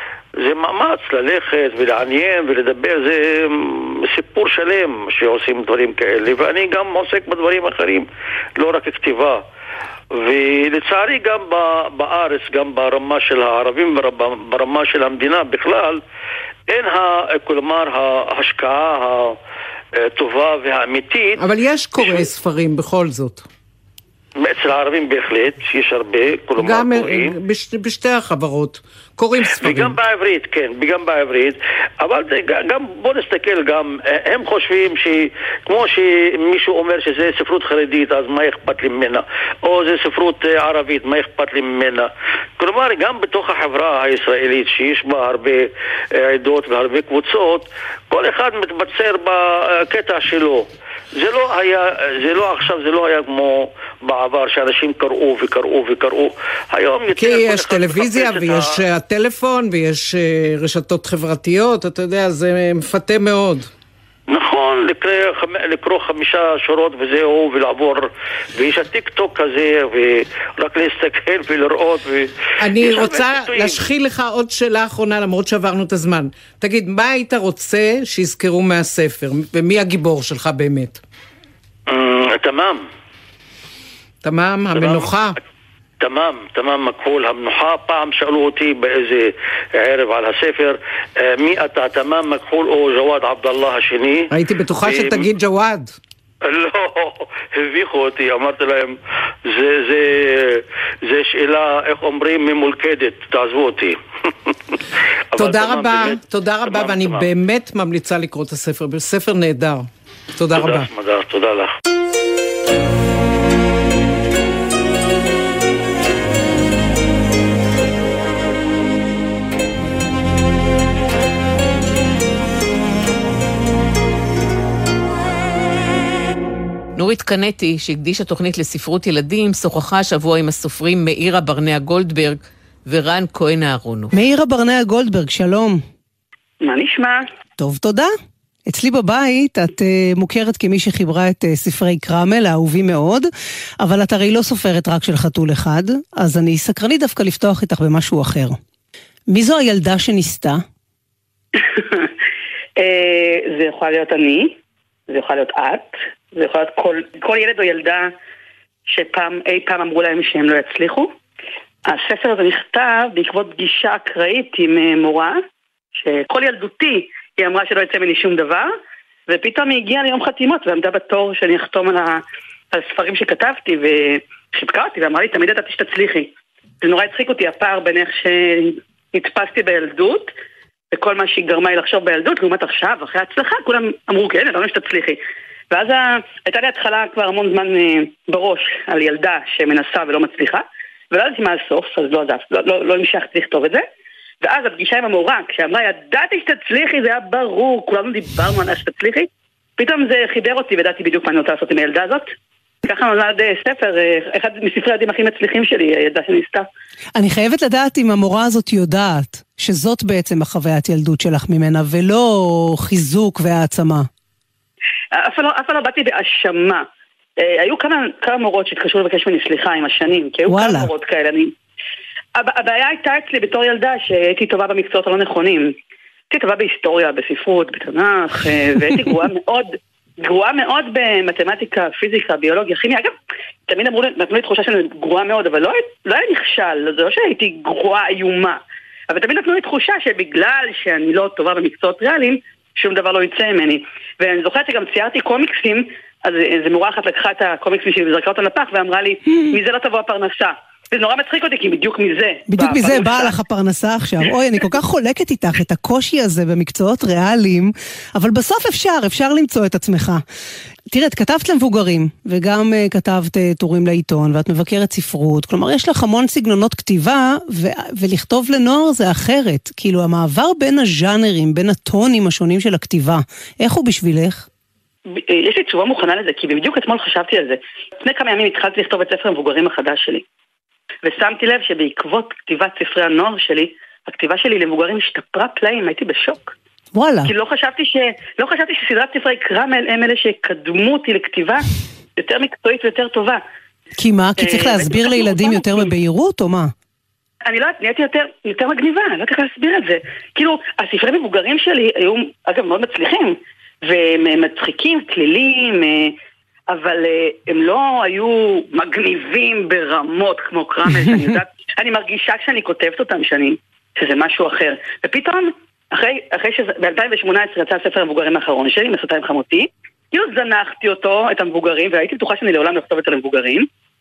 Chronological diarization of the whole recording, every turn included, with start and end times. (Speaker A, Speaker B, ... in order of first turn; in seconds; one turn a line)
Speaker A: 0.4-9.4
Speaker A: 10.1-16.0
Speaker A: 16.7-19.4
Speaker A: 20.0-21.4
Speaker B: 21.4-23.4
Speaker A: 22.0-22.3
Speaker A: 24.4-27.3
Speaker B: 26.6-30.0
Speaker A: 29.4-58.8
Speaker B: 57.1-63.7
Speaker A: 64.3-73.8
Speaker B: 72.6-81.0
Speaker A: 81.9-82.8
Speaker B: 84.2-85.4
Speaker A: 84.7-85.1
Speaker A: 86.0-94.3
Speaker B: 94.3-95.9
Speaker A: 94.8-95.3
Speaker A: 96.4-99.0
Speaker A: 99.5-104.5
Speaker A: 105.3-107.3
Speaker B: 105.4-110.9
Speaker A: 110.5-111.7
Speaker C: 127.0-134.1
Speaker D: 134.1-135.8
Speaker E: 136.6-137.3
Speaker D: 137.6-138.1
Speaker D: 138.7-143.3
Speaker D: 143.8-148.6
Speaker D: 149.3-150.6
Speaker E: 151.6-152.1
Speaker E: 152.8-154.6
Speaker E: 155.1-158.1
Speaker E: 158.9-161.1
Speaker E: 161.8-165.4
Speaker E: 165.9-168.7
Speaker E: 169.3-176.3
Speaker E: 176.8-180.3
Speaker E: 180.9-185.2
Speaker E: 185.7-193.8
Speaker E: 194.4-202.3
Speaker E: 202.8-206.7
Speaker D: 207.2-214.1
Speaker E: 215.1-216.8
Speaker E: 217.4-221.5
Speaker D: 220.5-220.9
Speaker E: 222.4-225.7
Speaker E: 226.3-233.1
Speaker E: 233.7-253.3
Speaker D: 252.5-260.2
Speaker D: 260.9-274.4
Speaker E: 275.1-280.2
Speaker E: 281.0-286.5
Speaker D: 286.9-287.3
Speaker E: 287.2-291.6
Speaker E: 292.2-293.4
Speaker D: 294.0-296.7
Speaker E: 294.4-295.9
Speaker E: 297.4-306.1
Speaker E: 306.7-323.7
Speaker D: 310.9-311.3